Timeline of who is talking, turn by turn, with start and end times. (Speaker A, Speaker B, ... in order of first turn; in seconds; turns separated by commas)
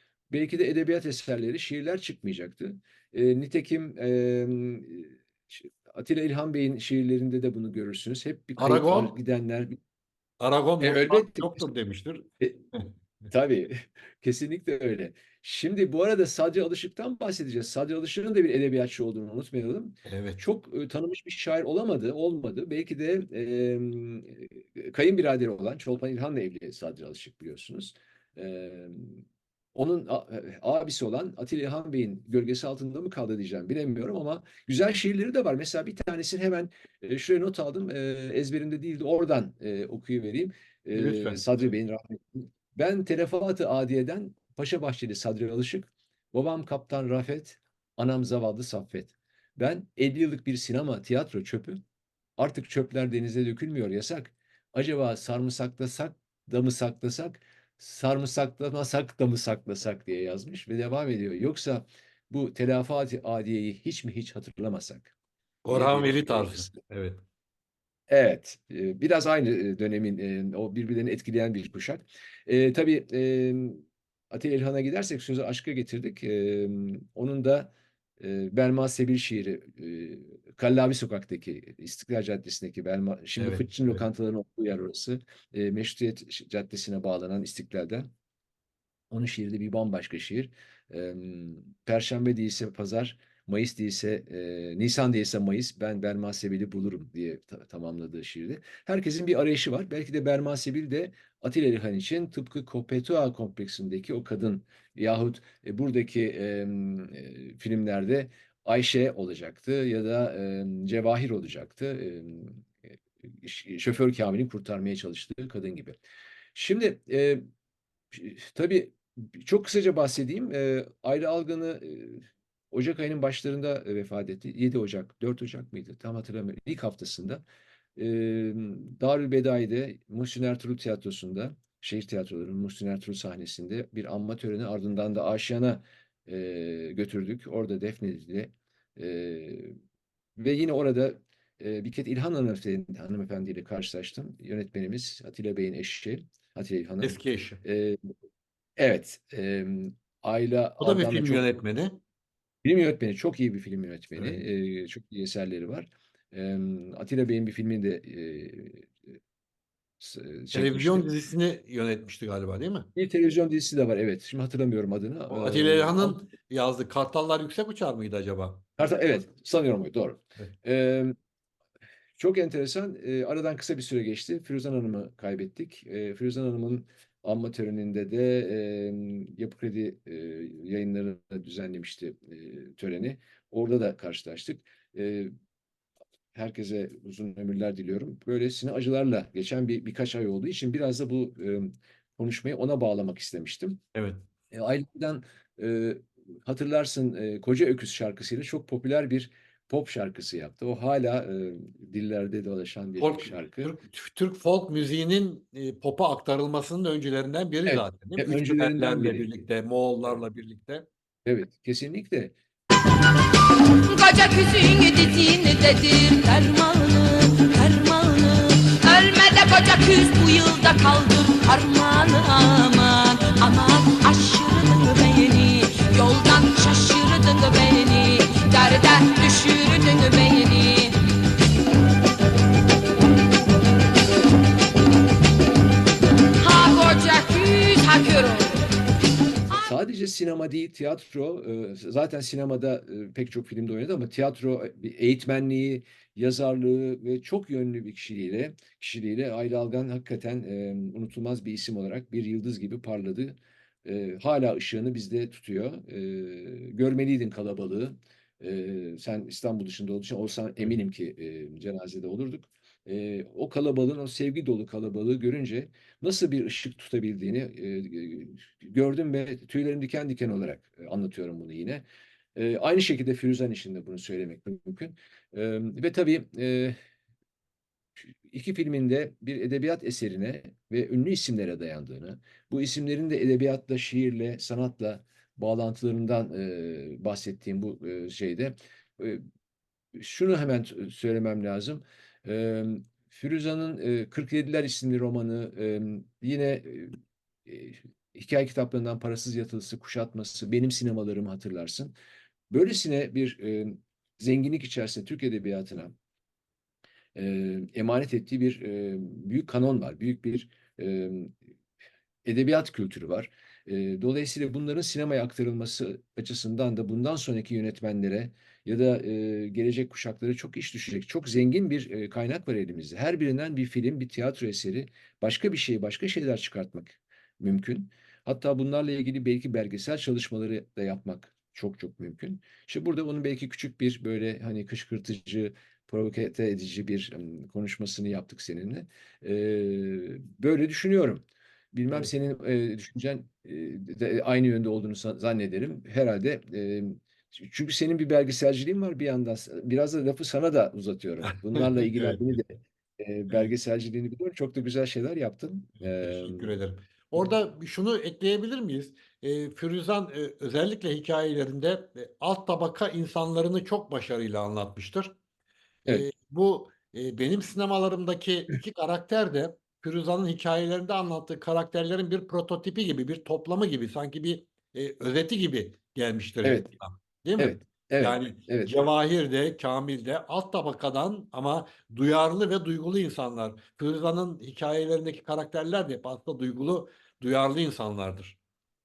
Speaker A: 0.3-9.8, Speaker B: 8.6-9.1, Speaker B: 10.4-12.9, Speaker A: 10.8-11.6, Speaker A: 13.3-29.2, Speaker B: 20.1-20.4, Speaker A: 29.7-51.8, Speaker B: 40.9-41.7, Speaker A: 52.4-65.1, Speaker B: 65.6-67.2, Speaker A: 65.7-66.7, Speaker A: 68.1-88.1, Speaker B: 83.4-84.0, Speaker A: 89.1-116.0, Speaker A: 116.5-117.4, Speaker A: 118.1-127.4, Speaker A: 128.0-139.8, Speaker A: 140.4-148.1, Speaker B: 147.0-147.6, Speaker A: 148.8-151.4, Speaker B: 150.8-152.0, Speaker A: 152.6-158.9, Speaker A: 160.0-161.1, Speaker B: 160.5-162.9, Speaker A: 162.9-166.2, Speaker B: 165.3-168.6, Speaker A: 168.8-171.1, Speaker A: 172.2-185.3, Speaker A: 186.3-193.8, Speaker B: 193.9-194.2, Speaker A: 194.5-203.7, Speaker B: 203.0-210.8, Speaker A: 207.7-209.3, Speaker A: 211.2-212.3, Speaker C: 213.9-231.0, Speaker C: 236.4-238.6, Speaker A: 239.6-271.8, Speaker A: 272.3-276.8, Speaker A: 278.0-289.2, Speaker A: 289.9-301.9, Speaker A: 302.5-305.9, Speaker A: 307.1-311.4, Speaker A: 312.2-356.5, Speaker B: 351.5-352.2, Speaker B: 355.8-365.1, Speaker B: 365.9-388.4, Speaker A: 376.4-376.7, Speaker A: 377.4-378.9